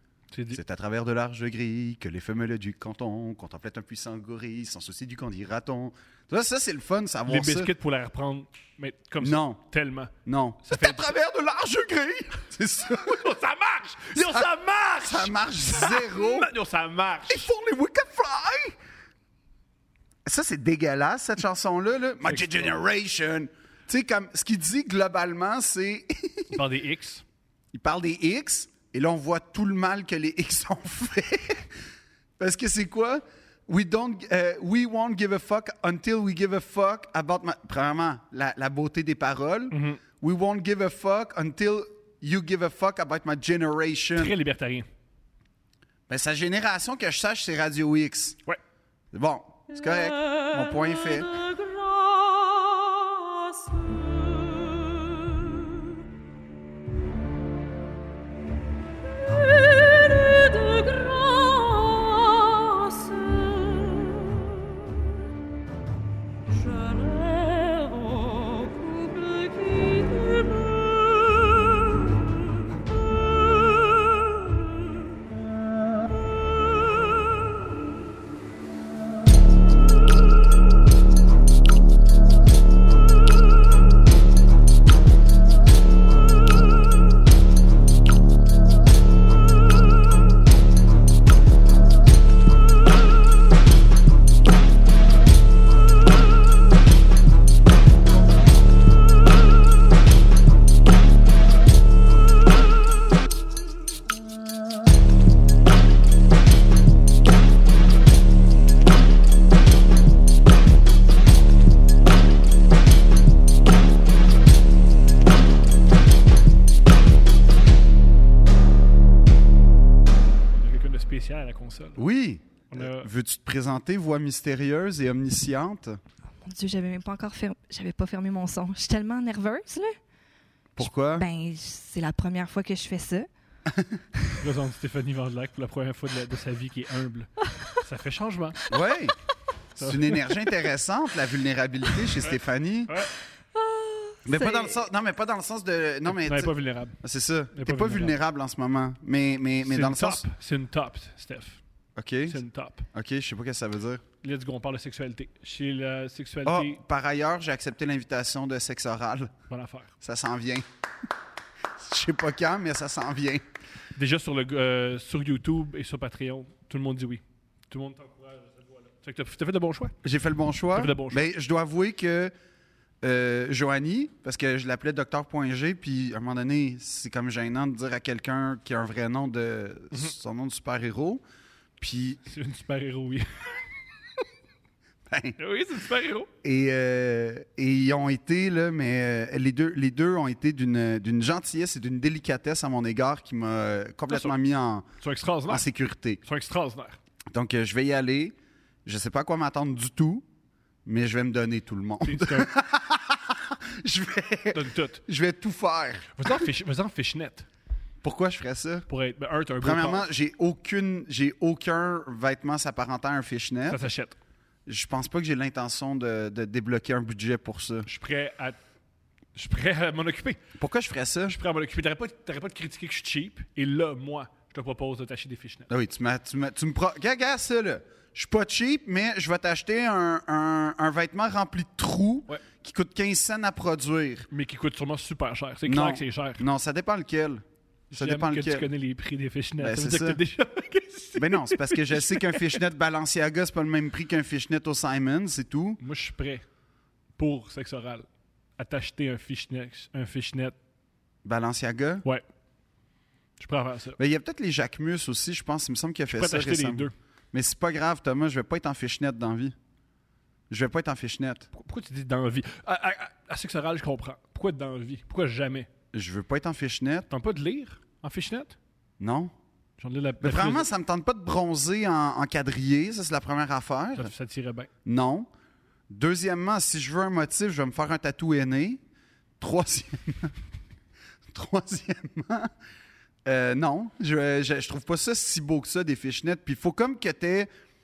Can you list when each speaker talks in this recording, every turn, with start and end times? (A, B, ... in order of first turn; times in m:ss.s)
0:00.3-0:00.6 A
0:00.5-0:07.7 B
0:07.3-0:10.1 A
0:09.2-0:09.6 B
0:10.2-0:13.3 B
0:10.6-0:11.1 A
0:12.9-0:17.5 A
0:14.1-0:16.5 B
0:17.3-0:18.8 B
0:20.2-0:26.6 B
0:22.2-0:22.7 A
0:26.5-0:27.2 A
0:27.7-0:31.7 B
0:32.4-0:44.3 B
0:39.7-0:40.0 A
0:44.2-0:44.9 A
0:46.1-0:48.4 B
0:49.1-0:51.4 B
2:00.5-2:02.0 A
2:02.0-2:06.0 B
2:02.7-2:03.1 A
2:06.4-2:10.0 C
2:10.8-2:11.2 B
2:10.8-2:13.3 C
2:13.7-2:14.0 B
2:14.4-2:18.6 A
2:18.7-2:19.2 B
2:19.8-2:20.2 A
2:19.8-2:23.0 B
2:23.6-2:24.8 C
2:24.2-2:30.2 B
2:26.0-2:27.0 A
2:27.5-2:28.2 A
2:29.6-2:31.6 A
2:32.0-2:32.4 B
2:32.3-2:32.8 A
2:32.9-2:34.0 B
2:34.2-2:36.8 A
2:36.4-2:39.3 B
2:39.5-2:39.9 A
2:40.0-2:40.6 B
2:41.8-2:43.4 B
2:43.9-2:49.9 A
2:50.0-2:52.3 B
2:50.7-2:51.2 A
2:53.0-3:01.2 B
3:01.8-3:02.2 B
3:02.2-3:03.5 A
3:05.1-3:05.4 B
3:05.4-3:06.3 A
3:06.4-3:14.9 B
3:15.0-3:15.6 A
3:15.5-3:16.2 B
3:16.2-3:17.0 A
3:17.3-3:20.2 B
3:20.8-3:26.4 B
3:22.0-3:22.5 A
3:24.5-3:25.0 A
3:26.2-3:27.5 A
3:28.0-3:28.9 B
3:28.9-3:30.1 A
3:29.6-3:33.8 B
3:33.7-3:34.2 A
3:34.7-3:37.9 B
3:37.8-3:38.6 A
3:39.3-3:40.4 A
3:40.6-3:41.4 B
3:41.3-3:45.7 A
3:45.7-3:54.3 B
3:54.3-3:56.4 A
3:55.6-3:57.4 B
3:57.9-4:02.6 A
3:57.9-3:58.7 B
3:59.6-4:00.2 B
4:01.2-4:05.8 B
4:05.8-4:06.4 A
4:07.2-4:10.6 A
4:11.2-4:12.0 B
4:13.4-4:14.0 A
4:14.0-4:19.5 B
4:16.1-4:16.9 A
4:20.5-4:21.5 B
4:21.5-4:25.7 A
4:25.9-4:27.1 B
4:27.1-4:28.6 A
4:29.0-4:29.3 B
4:29.8-4:30.7 A
4:30.2-4:34.1 B
4:34.0-4:34.7 A
4:34.8-4:35.3 B
4:35.9-4:38.8 B
4:39.4-4:40.3 B
4:41.3-4:42.5 B
4:43.2-4:47.5 B